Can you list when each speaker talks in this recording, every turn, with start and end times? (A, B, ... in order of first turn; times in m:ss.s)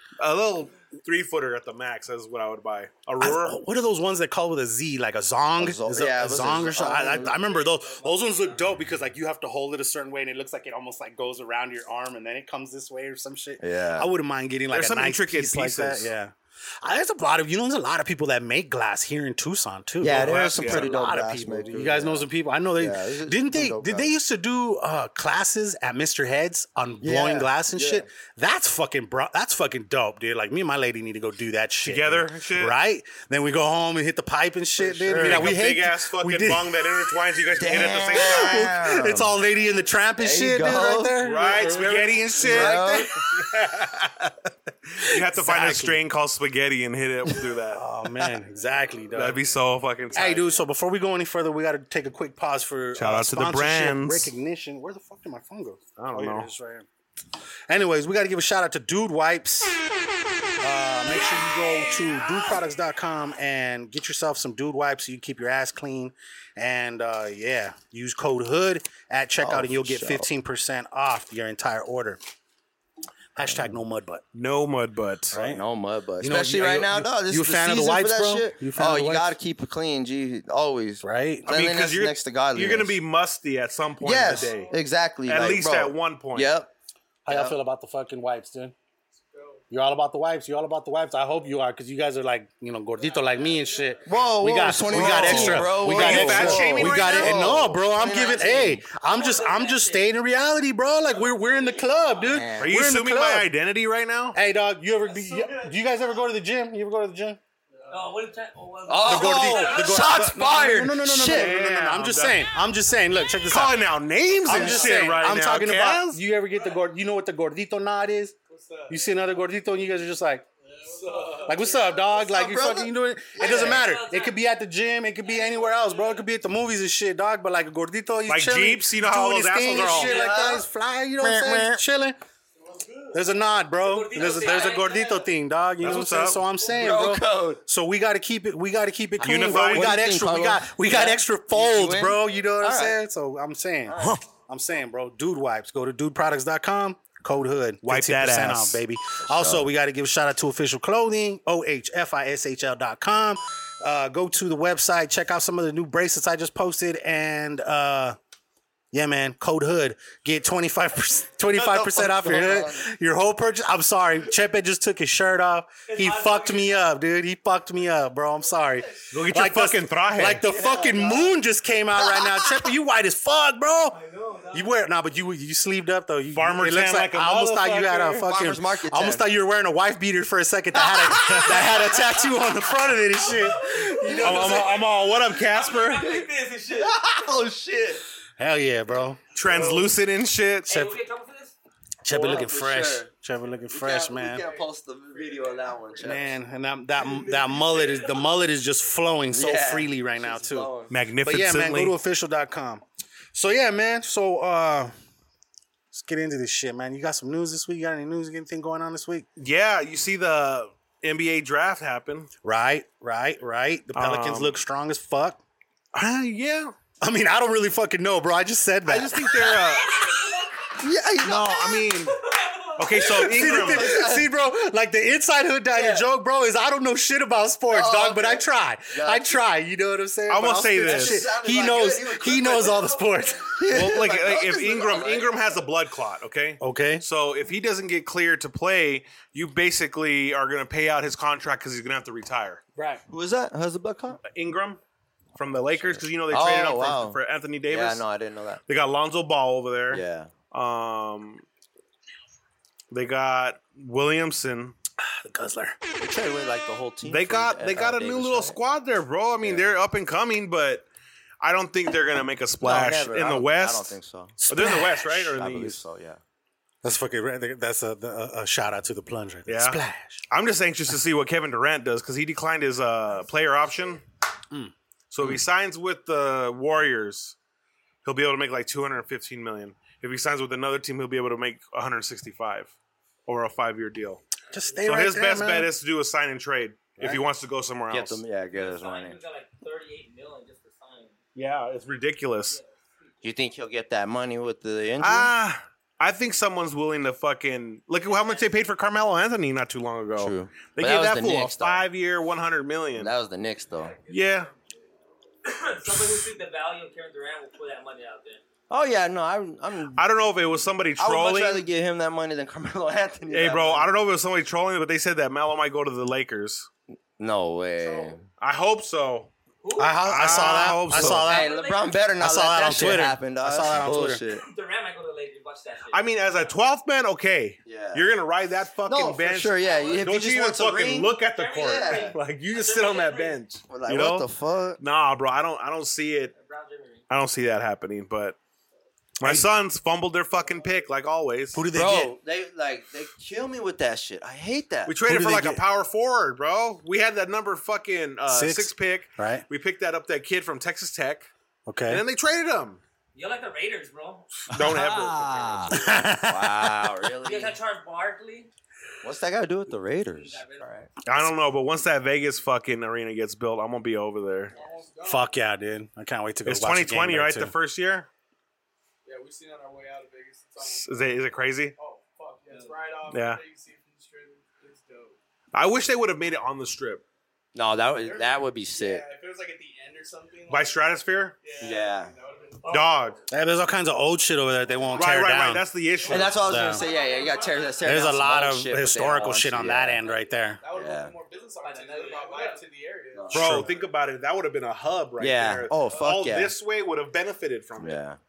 0:00.2-0:03.6 A
0:03.2-0:36.7 B
0:05.6-0:07.4 C
0:06.9-0:08.7 D
0:13.6-0:14.1 C
0:14.7-0:16.1 A
0:20.0-0:22.3 C
0:20.1-0:20.9 A
0:22.8-0:24.1 C
0:27.0-0:28.0 C
0:31.8-0:32.8 A
0:34.8-0:35.5 C
0:35.1-0:38.7 A
0:37.6-0:39.3 C
0:38.1-0:43.0 B
0:40.2-0:41.8 C
0:41.2-0:47.8 A
0:42.4-0:43.1 C
0:45.1-0:46.0 B
0:47.7-0:49.4 B
0:49.1-0:50.6 A
0:50.1-0:56.8 B
0:52.9-0:54.3 A
0:56.0-0:56.5 A
0:57.7-0:59.7 B
1:00.6-1:12.2 B
1:09.4-1:10.3 C
1:13.4-1:14.2 B
1:13.4-1:13.7 C
1:14.3-1:15.4 A
1:15.3-1:15.6 B
1:15.3-1:23.0 C
1:16.2-1:19.3 B
1:21.0-1:21.5 B
1:21.4-1:24.7 A
1:24.0-1:26.7 C
1:25.3-1:26.5 A
1:27.2-1:28.7 B
1:27.3-1:27.5 C
1:29.3-1:29.6 E
1:29.7-1:43.5 B
1:33.1-1:33.6 D
1:34.0-1:38.8 C
1:34.9-1:37.6 A
1:39.0-1:40.0 D
1:42.3-1:42.7 C
1:42.6-1:44.4 A
1:44.3-1:47.4 B
1:45.3-1:45.6 E
1:47.7-1:48.1 E
1:47.9-1:50.2 D
1:48.9-1:51.5 C
1:49.0-1:53.8 B
1:51.2-1:52.5 A
1:53.5-1:56.2 A
1:54.4-1:58.3 B
1:58.5-1:59.2 E
1:58.9-2:00.4 B
2:00.6-2:02.0 E
2:01.3-2:01.5 D
2:01.4-2:12.2 B
2:02.2-2:03.8 C
2:03.4-2:04.4 D
2:05.3-2:06.0 D
2:08.3-2:10.2 A
2:09.8-2:10.6 C
2:11.2-2:11.8 C
2:12.6-2:13.2 E
2:13.1-2:38.2 B
2:13.8-2:15.3 D
2:15.8-2:16.4 A
2:16.6-2:17.6 C
2:19.2-2:20.0 A
2:19.4-2:23.0 C
2:23.9-2:24.2 C
2:27.8-2:28.8 A
2:29.2-2:29.7 C
2:38.9-2:54.0 B
2:41.5-2:42.9 C
2:45.9-2:46.8 D
2:49.1-2:50.4 A
2:50.4-2:51.4 C
2:52.0-2:52.6 C
2:53.9-2:54.7 D
2:54.5-3:04.6 B
2:56.3-2:58.2 A
2:58.1-2:59.2 C
3:00.8-3:02.2 C
3:03.2-3:06.9 D
3:04.1-3:04.6 C
3:04.2-3:06.2 A
3:06.7-3:08.0 C
3:08.4-3:09.4 B
3:09.3-3:10.7 A
3:09.5-3:09.8 C
3:10.7-3:11.5 D
3:12.0-3:14.4 B
3:12.1-3:13.1 C
3:13.7-3:16.3 C
3:15.2-3:15.6 E
3:16.0-3:20.7 B
3:19.3-3:20.9 C
3:20.9-3:22.0 A
3:21.2-3:22.8 B
3:23.3-3:24.9 B
3:25.9-3:29.2 B
3:29.4-3:32.3 A
3:32.4-3:35.4 B
3:33.9-3:34.6 A
3:35.9-3:36.7 A
3:37.0-3:39.3 B
3:38.8-3:40.0 A
3:39.4-3:40.7 D
3:40.8-3:41.7 C
3:41.2-3:42.2 A
3:41.7-3:43.0 D
3:42.8-3:43.9 A
3:43.0-3:53.6 B
3:43.2-3:44.3 C
3:45.7-3:46.1 C
3:47.7-3:49.4 C
3:50.3-3:51.2 A
3:50.8-3:55.4 C
3:53.7-4:02.6 A
3:56.6-3:57.0 B
4:03.1-4:04.2 C
4:04.2-4:04.8 A
4:05.4-4:08.0 A
4:05.8-4:08.6 C
4:08.7-4:11.4 A
4:09.9-4:10.3 C
4:12.9-4:14.8 A
4:15.2-4:15.8 B
4:16.0-4:18.6 C
4:17.0-4:20.8 A
4:19.4-4:19.7 C
4:21.4-4:24.0 A
4:22.6-4:24.4 C
4:24.4-4:25.0 B
4:24.5-4:25.8 A
4:25.0-4:26.2 C
4:26.8-4:30.2 B
4:29.5-4:29.8 A
4:30.3-4:34.0 A
4:35.1-4:37.4 A
4:38.0-4:42.7 A
4:43.2-4:44.2 A
4:44.5-4:45.7 B
4:44.5-4:44.8 D
4:44.8-4:48.2 A
4:47.9-4:49.2 C
4:48.5-4:51.2 D
4:51.3-4:52.6 A
4:52.5-4:53.1 D
4:53.2-4:55.3 C
4:55.0-5:03.1 A
4:58.0-4:58.5 D
5:00.2-5:01.8 C
5:03.0-5:03.9 C
5:03.8-5:04.4 D
5:04.1-5:04.5 A
5:05.4-5:08.4 D
5:08.7-5:10.0 C
5:09.9-5:11.7 A
5:11.0-5:13.9 C
5:13.3-5:16.7 A
5:17.2-5:18.2 C
5:17.8-5:18.1 E
5:18.4-5:19.3 A
5:19.6-5:20.6 D
5:19.8-5:21.5 B
5:20.0-5:21.3 A
5:20.9-5:24.4 C
5:21.2-5:22.0 D
5:22.2-5:24.2 B
5:24.3-5:26.1 D
5:25.9-5:34.2 A
5:27.6-5:28.0 C
5:28.9-5:32.2 C
5:29.6-5:30.0 D
5:31.2-5:33.4 D
5:33.7-5:34.8 C
5:34.8-5:36.3 A
5:36.3-5:37.0 D
5:37.1-5:38.4 A
5:39.2-5:41.6 A
5:41.5-5:42.1 B
5:41.7-5:45.0 C
5:44.9-5:51.3 A
5:45.0-5:45.6 B
5:48.3-5:49.4 B
5:51.7-5:52.0 B
5:51.9-5:52.8 A
5:53.1-5:54.3 D
5:54.5-5:56.0 A
5:55.7-5:56.8 B
5:56.1-5:57.6 C
5:57.2-5:58.5 D
5:59.0-6:00.4 C
6:00.2-6:00.9 D
6:01.0-6:04.5 A
6:04.5-6:05.3 E
6:05.0-6:07.5 B
6:06.4-6:08.1 A
6:09.0-6:15.2 E
6:10.6-6:11.7 A
6:13.1-6:13.4 A
6:15.5-6:17.0 A
6:17.5-6:19.0 C
6:18.0-6:20.8 E
6:20.5-6:21.4 A
6:21.4-6:23.2 E
6:21.6-6:22.1 C
6:22.7-6:23.2 A
6:23.3-6:25.6 B
6:24.7-6:25.0 E
6:25.0-6:26.4 A
6:26.1-6:30.0 C
6:26.3-6:26.8 B
6:26.7-6:27.9 D
6:26.8-6:27.4 E
6:27.8-6:30.6 B
6:30.6-6:33.8 E
6:30.7-6:31.1 C
6:31.6-6:32.6 D
6:33.1-6:33.6 C
6:33.3-6:38.0 A
6:33.4-6:33.7 B
6:35.2-6:36.5 C
6:37.8-6:38.2 C